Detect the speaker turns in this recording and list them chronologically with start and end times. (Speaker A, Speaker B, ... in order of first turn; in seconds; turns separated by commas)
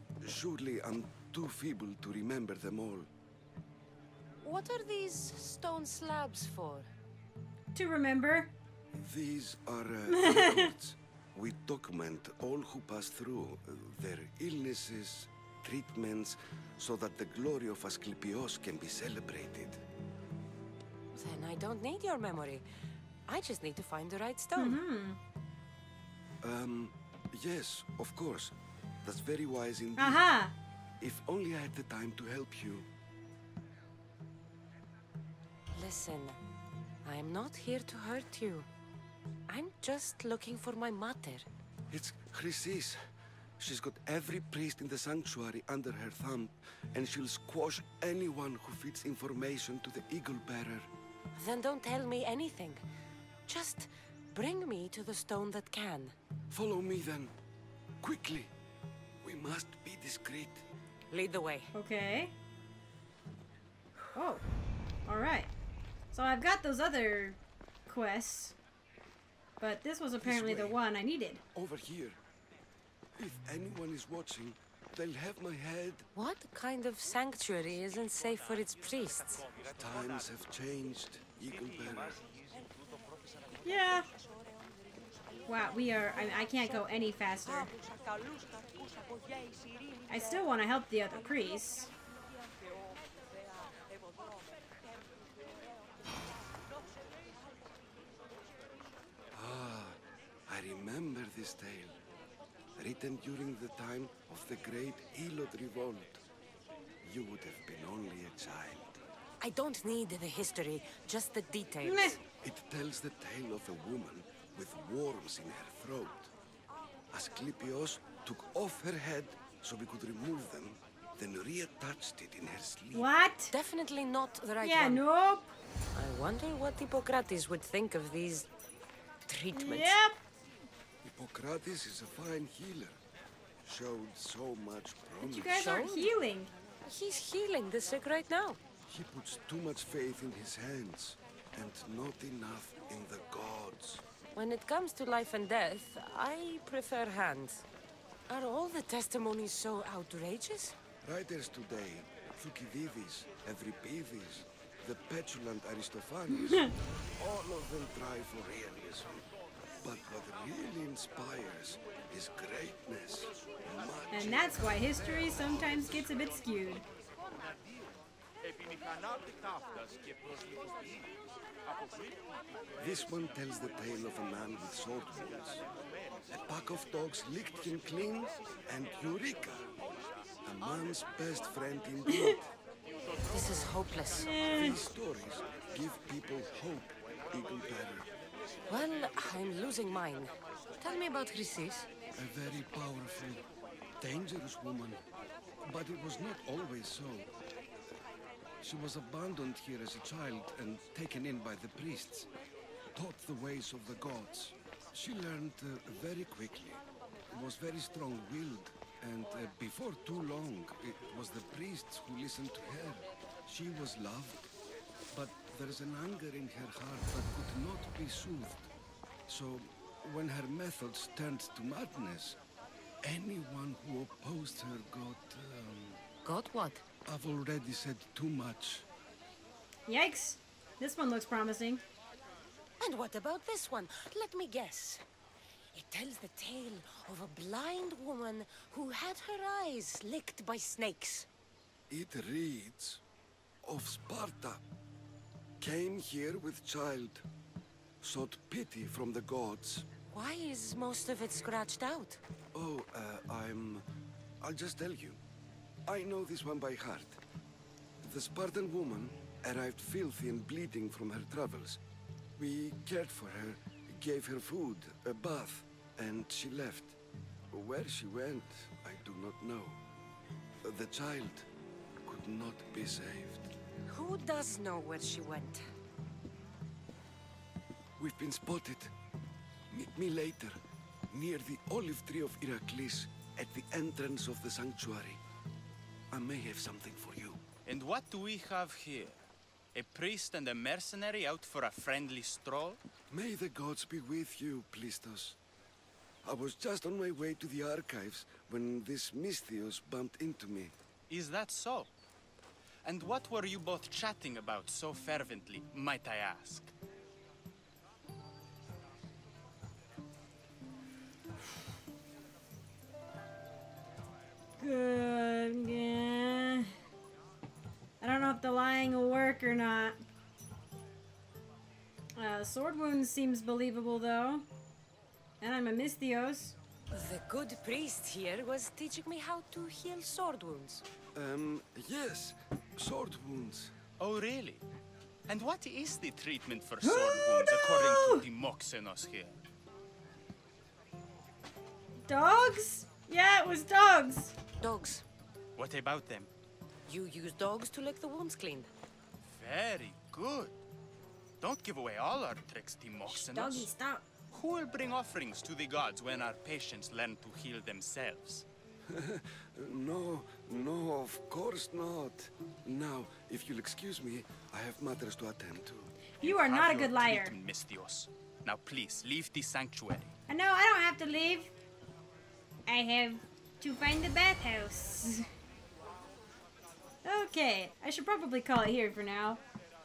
Speaker A: 0.2-3.1, Speaker B: 4.4-6.9, Speaker C: 7.7-8.5, Speaker A: 8.9-19.8, Speaker C: 10.1-10.7, Speaker B: 21.1-22.6, Speaker B: 23.3-24.8, Speaker C: 24.6-25.2, Speaker A: 26.4-30.2, Speaker C: 30.0-30.5, Speaker A: 31.0-32.9, Speaker B: 35.7-36.4, Speaker B: 37.0-38.7, Speaker B: 39.5-41.5, Speaker A: 41.9-43.0, Speaker A: 43.6-50.9, Speaker B: 51.3-52.8, Speaker B: 53.5-56.1, Speaker A: 56.5-57.3, Speaker A: 58.0-58.5, Speaker A: 59.2-60.6, Speaker B: 61.1-61.7, Speaker C: 61.7-62.3, Speaker C: 64.1-64.4, Speaker C: 65.0-65.5, Speaker C: 66.1-68.5, Speaker C: 69.6-71.4, Speaker A: 70.2-70.8, Speaker A: 71.5-72.2, Speaker A: 73.2-76.0, Speaker B: 76.1-79.5, Speaker A: 79.8-82.2, Speaker C: 83.6-84.1, Speaker C: 85.5-87.7, Speaker C: 90.1-91.9, Speaker A: 99.3-102.0, Speaker A: 102.8-106.2, Speaker A: 107.0-109.0, Speaker B: 109.4-112.2, Speaker C: 111.8-112.2, Speaker A: 112.4-116.3, Speaker A: 117.1-123.0, Speaker C: 122.9-123.5, Speaker B: 123.5-125.0, Speaker C: 124.6-125.5, Speaker B: 125.9-128.5, Speaker B: 129.3-130.0, Speaker C: 129.5-130.2, Speaker A: 131.0-133.0, Speaker A: 133.6-135.6, Speaker C: 135.2-136.5, Speaker B: 135.4-136.1, Speaker B: 136.8-138.6, Speaker A: 138.9-144.0, Speaker B: 144.3-147.7, Speaker B: 148.3-150.8, Speaker A: 151.0-159.2, Speaker C: 156.3-156.7, Speaker A: 159.8-164.6, Speaker C: 164.1-166.8, Speaker A: 172.8-175.6, Speaker A: 176.3-179.6, Speaker A: 180.4-182.5, Speaker C: 182.1-182.3, Speaker B: 183.3-184.3, Speaker C: 184.2-184.8, Speaker A: 184.4-188.1, Speaker B: 188.7-191.9, Speaker A: 192.1-193.4, Speaker A: 194.0-195.0, Speaker A: 195.7-197.3, Speaker A: 198.6-202.3, Speaker A: 202.9-206.8, Speaker A: 207.3-214.5, Speaker A: 215.1-218.7, Speaker A: 219.3-222.4, Speaker A: 223.0-226.0, Speaker B: 226.2-226.8, Speaker A: 227.1-228.8, Speaker C: 229.9-231.8, Speaker B: 232.8-235.0, Speaker B: 235.7-241.3, Speaker A: 241.9-243.0, Speaker A: 243.6-244.6, Speaker A: 245.6-247.2, Speaker A: 248.0-249.8, Speaker B: 250.1-252.2, Speaker A: 252.5-253.8, Speaker A: 254.4-255.2, Speaker A: 255.9-257.2, Speaker A: 258.0-261.8, Speaker A: 262.4-266.9, Speaker A: 267.5-269.8, Speaker A: 270.6-271.5, Speaker A: 272.0-273.5, Speaker B: 273.9-275.6, Speaker A: 278.0-278.9, Speaker A: 279.7-280.6, Speaker A: 281.1-285.2, Speaker A: 286.1-287.4, Speaker D: 287.6-289.2, Speaker D: 289.7-292.8, Speaker A: 293.1-295.4, Speaker A: 296.2-300.7, Speaker D: 301.1-301.9, Speaker D: 302.8-306.7, Speaker C: 314.6-316.7, Speaker C: 318.0-320.0, Speaker C: 322.1-324.4, Speaker C: 325.4-326.6, Speaker B: 326.9-330.8, Speaker A: 331.1-333.7, Speaker D: 334.0-334.6, Speaker D: 335.3-339.4, Speaker C: 336.8-338.2, Speaker C: 342.1-344.3, Speaker B: 344.6-345.0, Speaker D: 345.6-346.3, Speaker B: 346.9-348.7, Speaker D: 349.3-350.5, Speaker D: 351.4-353.7, Speaker C: 353.1-354.1, Speaker D: 354.3-358.5, Speaker A: 358.9-365.9, Speaker C: 366.2-367.3, Speaker D: 366.2-370.1, Speaker C: 370.3-371.5, Speaker C: 372.7-375.3, Speaker C: 377.0-379.4